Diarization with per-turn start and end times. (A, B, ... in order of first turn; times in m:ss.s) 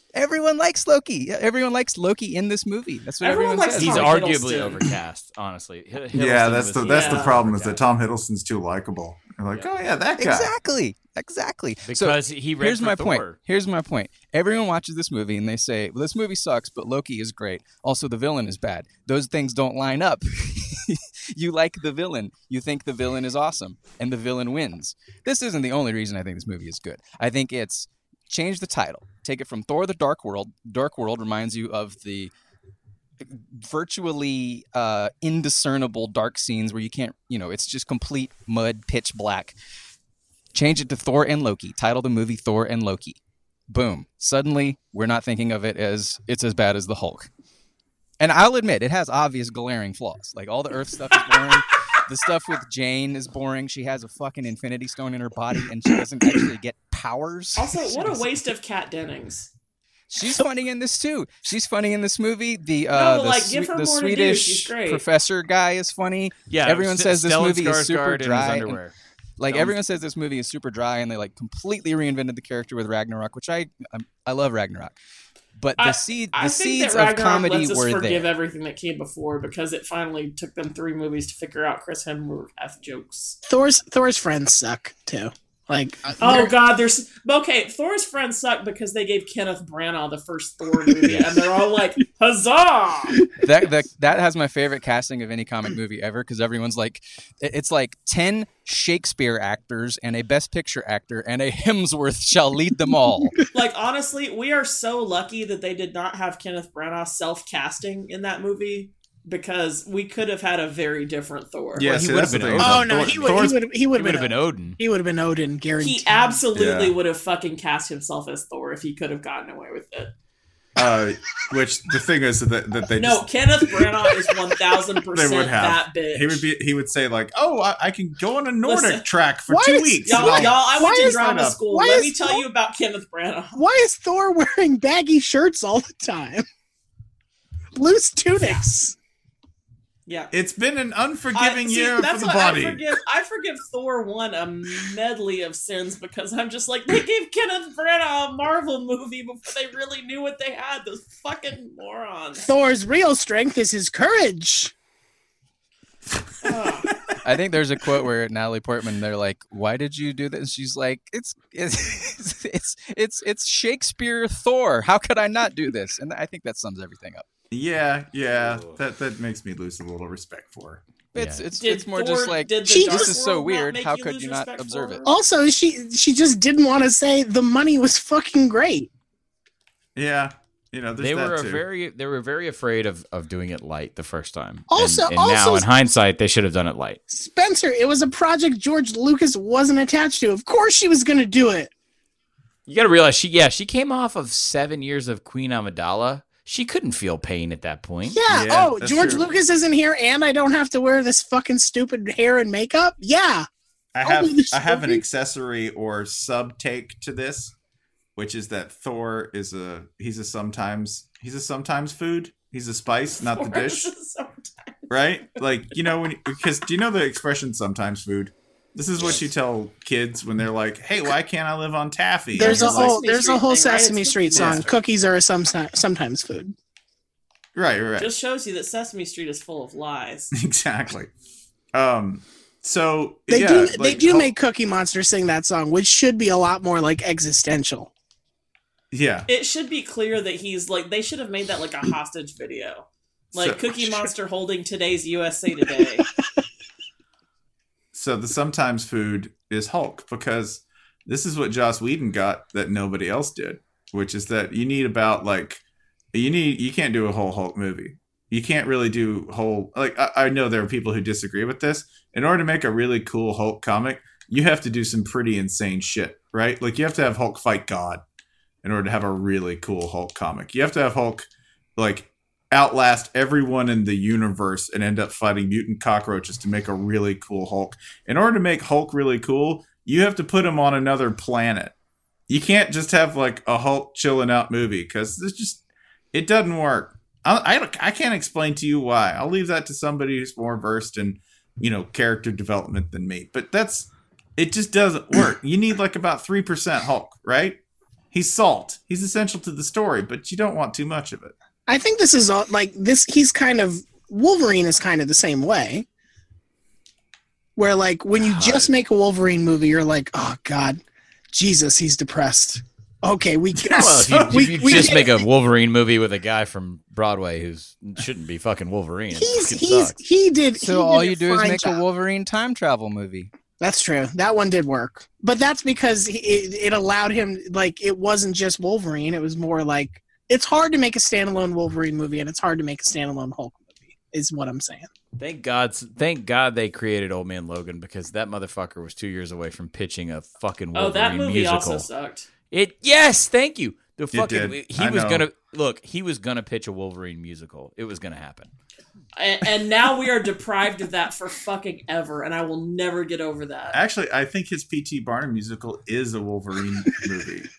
0:00.2-0:04.1 A
0:03.2-0:04.9 B
0:03.8-0:07.8 C
0:06.1-0:10.5 D
0:06.8-0:07.4 B
0:10.2-0:32.3 A
0:11.9-0:13.4 C
0:33.2-0:39.6 A
0:40.5-0:43.2 A
0:43.7-0:47.3 A
0:48.2-0:58.4 A
0:57.6-0:59.5 B
1:00.1-1:08.8 A
1:02.9-1:05.0 B
1:06.5-1:08.9 C
1:09.4-1:15.0 A
1:09.5-1:09.7 C
1:15.6-1:18.3 A
1:15.8-1:23.4 B
1:23.5-1:26.5 E
1:26.2-1:33.2 B
1:30.9-1:31.2 E
1:31.1-1:31.4 C
1:33.4-1:43.4 A
1:43.5-1:52.0 B
1:51.8-1:53.6 D
1:51.8-1:54.8 C
1:52.6-1:56.4 E
1:55.8-2:00.1 B
1:56.5-1:57.0 D
2:00.8-2:03.3 D
2:03.0-2:06.4 B
2:04.0-2:04.3 E
2:05.1-2:11.6 D
2:08.6-2:09.1 B
2:09.5-2:12.4 E
2:10.0-2:13.6 B
2:13.6-2:16.4 E
2:17.8-2:19.0 E
2:20.1-2:20.3 B
2:20.3-2:22.8 D
2:21.3-2:32.5 B
2:32.4-2:34.7 E
2:36.4-2:36.9 B
2:37.2-2:47.3 A
2:47.5-2:50.8 D
2:48.3-2:48.8 C
2:51.1-2:55.1 A
2:51.2-2:51.4 C
2:51.6-2:55.1 B
2:52.6-2:53.2 E
2:55.0-2:58.9 E
3:00.0-3:01.6 D
3:01.0-3:07.0 C
3:04.7-3:05.7 E
3:07.1-3:11.7 E
3:12.7-3:18.2 C
3:18.1-3:23.5 E
3:18.3-3:19.3 D
3:23.9-3:27.5 D
3:24.0-3:25.0 E
3:28.2-3:33.9 D
3:33.1-3:35.0 B
3:34.9-3:43.0 D
3:42.3-3:46.5 E
3:42.4-3:44.6 B
3:44.3-3:44.7 D
3:47.6-3:48.1 D
3:48.0-3:50.3 B
3:50.3-3:51.1 D
3:51.7-3:54.3 D
3:53.3-3:57.9 E
3:58.9-3:59.3 D
3:59.3-4:06.1 B
4:03.3-4:04.0 D
4:07.9-4:15.6 D
4:16.1-4:28.0 D
4:28.6-4:41.7 D
4:42.3-4:45.6 D
4:46.1-4:57.6 D
4:58.1-5:01.4 D
5:01.7-5:05.9 E
5:07.6-5:15.3 E
5:08.2-5:08.7 C
5:13.7-5:20.0 C
5:14.2-5:14.9 D
5:19.2-5:21.8 E
5:20.6-5:23.3 A
5:23.6-5:34.9 E
5:35.2-5:41.9 C
5:40.8-5:42.3 B
5:42.5-5:48.5 C
5:44.1-5:45.2 D
5:49.2-5:53.8 B
5:53.7-5:57.5 D